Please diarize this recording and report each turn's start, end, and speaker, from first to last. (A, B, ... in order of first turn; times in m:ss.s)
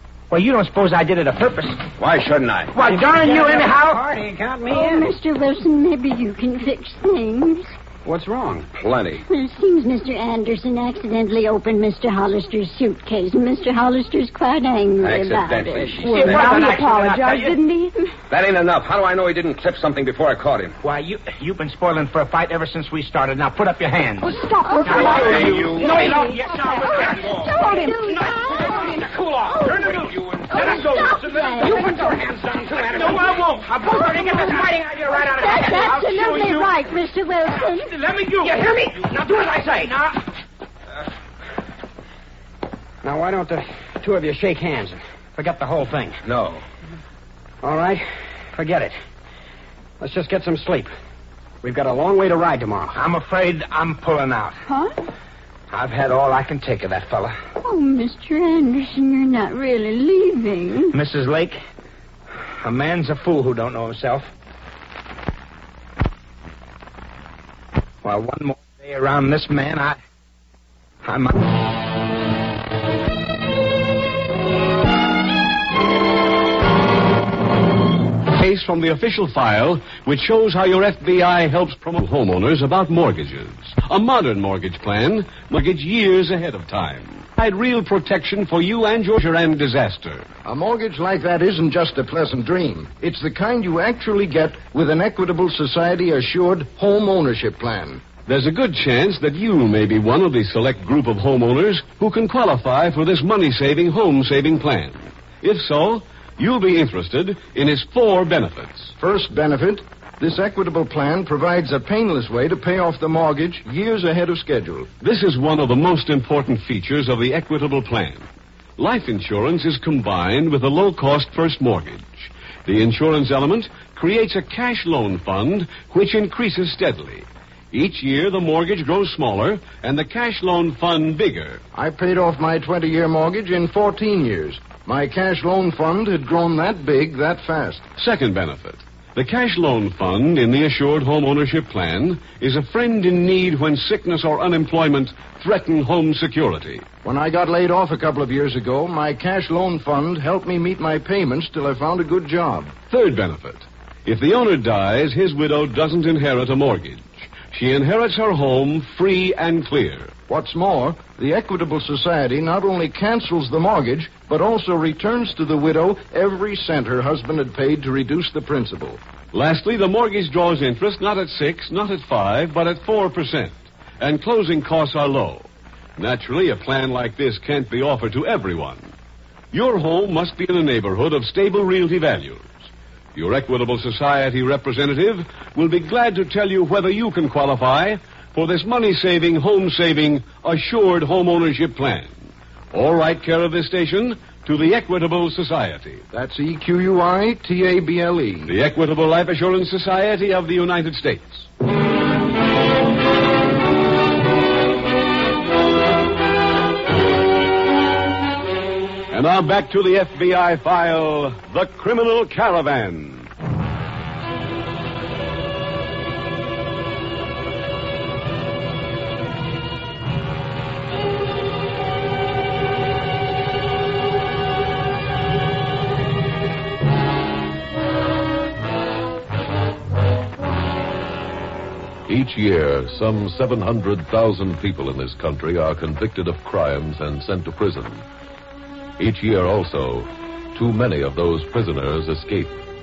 0:00.3-0:01.9 A
0:01.9-0:02.9 B
0:02.7-0:04.0 A
0:02.9-0:05.1 C
0:04.7-0:07.7 D
0:08.0-0:08.7 C
0:08.7-0:09.2 B
0:09.3-0:16.0 D
0:15.0-0:16.7 B
0:16.0-0:18.0 E
0:16.2-0:17.6 A
0:18.3-0:20.8 B
0:20.8-0:24.3 A
0:24.2-0:29.0 E
0:24.7-0:25.0 D
0:24.9-0:27.3 A
0:25.1-0:25.9 B
0:26.7-0:32.1 D
0:29.0-0:36.7 A
0:31.6-0:33.4 C
0:34.0-0:34.4 D
0:35.2-0:38.0 D
0:38.0-0:40.2 A
0:43.0-0:46.2 C
0:47.6-0:49.0 C
0:50.0-0:50.9 C
0:51.6-0:53.0 C
0:52.9-0:54.6 A
0:54.7-0:54.9 E
0:55.7-0:57.4 A
0:57.6-1:01.0 D
1:00.9-1:01.6 A
1:02.5-1:04.3 A
1:08.0-1:10.0 A
1:11.0-1:11.5 A
1:18.3-1:30.2 F
1:30.4-1:38.0 G
1:38.2-1:48.9 F
1:49.0-1:54.9 G
1:55.0-2:11.6 F
2:11.8-2:17.9 G
2:18.0-2:26.9 F
2:27.0-2:32.7 G
2:32.9-2:40.1 F
2:40.3-2:49.0 G
2:49.3-2:58.9 F
2:59.5-3:12.2 F
3:12.7-3:16.0 F
3:16.1-3:18.5 G
3:18.5-3:21.5 F
3:29.1-3:33.3 F
3:52.1-3:58.0 H
3:59.0-4:02.5 H